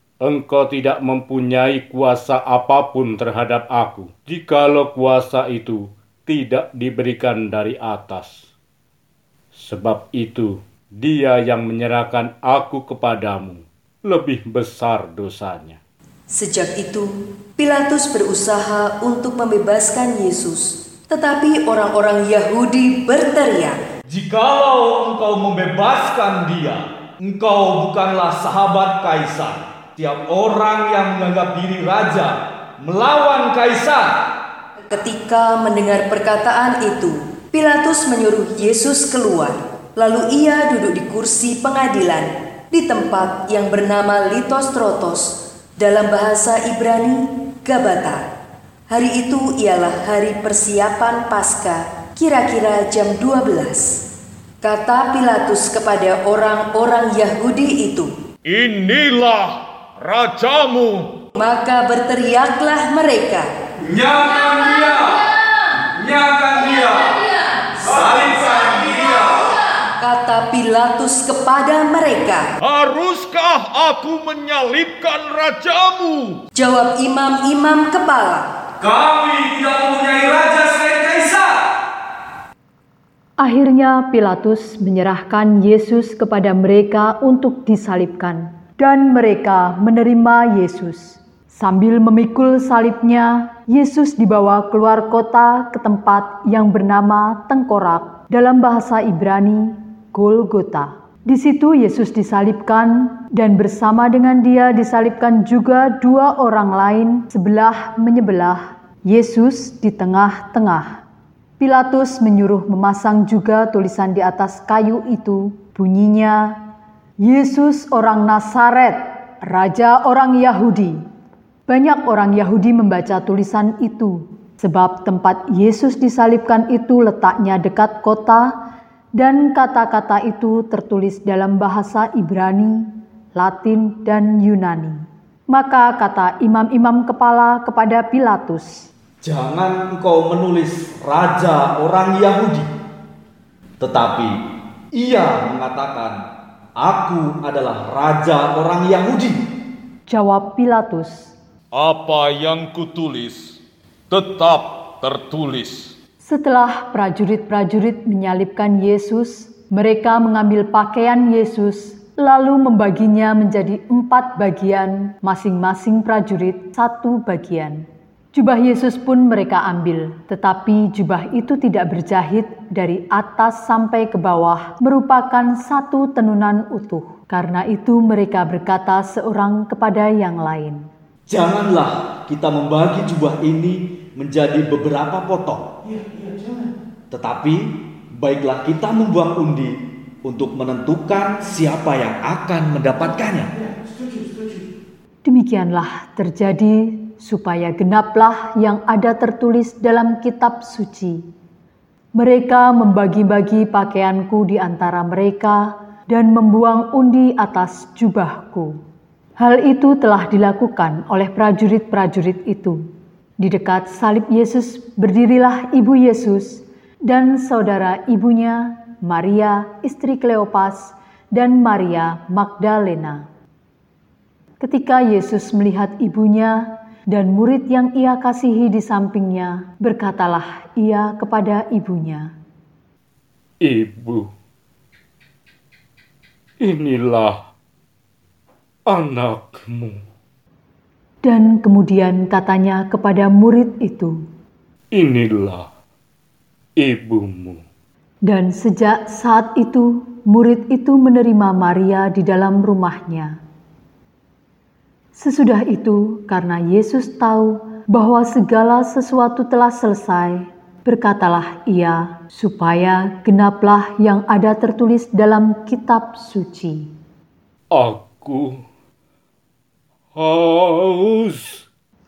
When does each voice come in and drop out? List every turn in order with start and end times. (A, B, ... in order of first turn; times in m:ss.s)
0:00.2-0:08.5 A
0:09.6-0:15.8 A
0:16.3-0:23.8 B
0:24.1-0:34.2 C
0:34.9-0:48.2 B
0:48.9-0:54.0 B
0:54.6-0:58.1 B
0:58.5-1:01.1 D
1:01.4-1:03.5 B
1:03.8-1:09.5 C
1:10.0-1:12.5 B
1:12.6-1:16.4 D
1:16.5-1:18.6 B
1:18.8-1:21.7 C
1:23.4-1:51.0 E
1:51.6-1:56.6 E
1:57.2-2:01.0 E
2:01.7-2:08.5 E
2:09.2-2:18.9 E
2:19.2-2:22.7 C
2:23.8-2:24.4 C
2:25.0-2:26.2 C
2:26.8-2:29.4 C
2:30.1-2:31.3 E
2:31.8-2:33.6 D
2:34.1-2:35.9 D
2:36.2-3:00.8 E
3:01.3-3:06.1 C
3:07.1-3:13.5 C
3:15.2-3:21.2 E
3:22.2-3:28.8 E
3:29.4-3:32.8 E
3:33.4-3:43.3 E
3:44.6-3:52.3 E
3:53.6-3:54.3 A
3:56.6-3:57.4 A
3:58.9-4:00.0 A
4:01.2-4:04.2 E
4:04.9-4:05.7 A
4:06.8-4:07.6 A
4:08.2-4:13.4 E
4:15.2-4:26.9 E
4:27.7-4:28.6 A
4:30.2-4:31.6 A